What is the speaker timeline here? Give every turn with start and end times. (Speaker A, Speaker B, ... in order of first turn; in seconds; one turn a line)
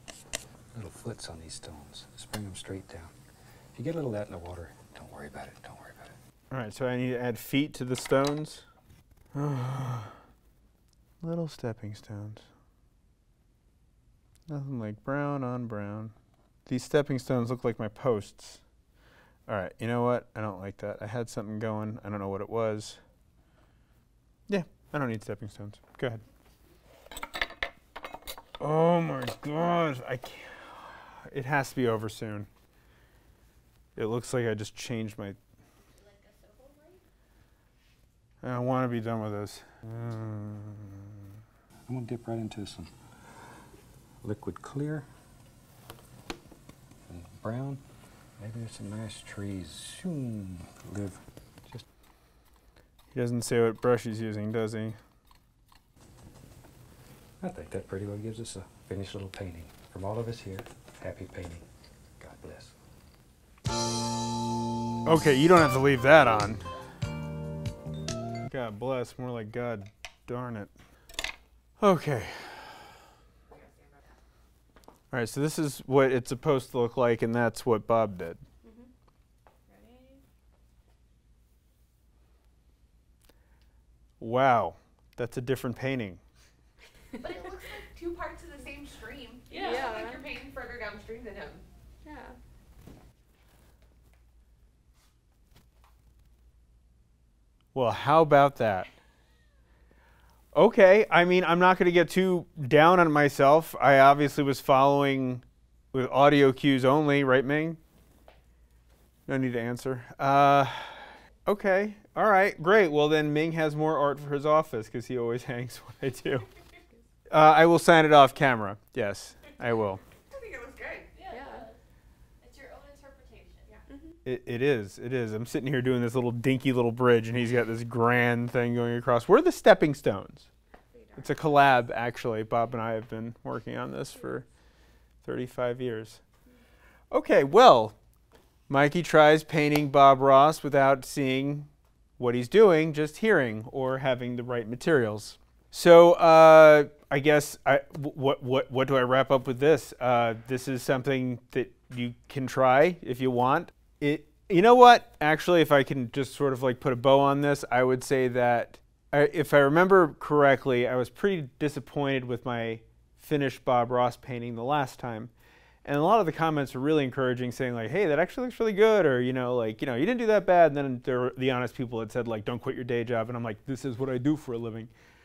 Speaker A: 0.7-3.1
Speaker A: 3.7-6.2
Speaker B: 6.5-8.6
Speaker B: 9.3-10.2
Speaker B: 11.2-12.5
Speaker B: 14.5-16.1
Speaker B: 16.6-18.6
Speaker B: 19.5-23.0
Speaker B: 24.5-26.2
Speaker B: 28.6-32.5
Speaker B: 34.0-35.4
Speaker C: 35.9-37.0
Speaker B: 38.4-41.2
Speaker A: 41.9-42.9
Speaker A: 44.2-45.1
Speaker A: 47.1-47.8
Speaker A: 48.4-51.8
Speaker B: 53.1-55.0
Speaker A: 57.4-61.7
Speaker A: 62.2-62.7
Speaker B: 65.0-66.6
Speaker B: 68.5-70.7
Speaker B: 71.8-72.9
Speaker D: 73.5-74.1
Speaker B: 75.1-78.4
Speaker C: 78.6-78.9
Speaker C: 79.7-80.2
Speaker B: 84.2-86.2
Speaker D: 87.1-91.7
Speaker C: 89.5-90.2
Speaker B: 97.7-98.9
Speaker B: 100.5-107.8
Speaker B: 109.3-116.5
Speaker B: 117.3-120.0
Speaker D: 120.2-121.6
Speaker C: 121.1-121.8
Speaker C: 122.4-124.0
Speaker D: 123.7-123.9
Speaker B: 124.2-130.5
Speaker D: 130.9-131.2
Speaker B: 131.2-134.4
Speaker B: 135.2-136.2
Speaker B: 137.1-137.9
Speaker B: 138.7-165.3
Speaker B: 165.8-174.9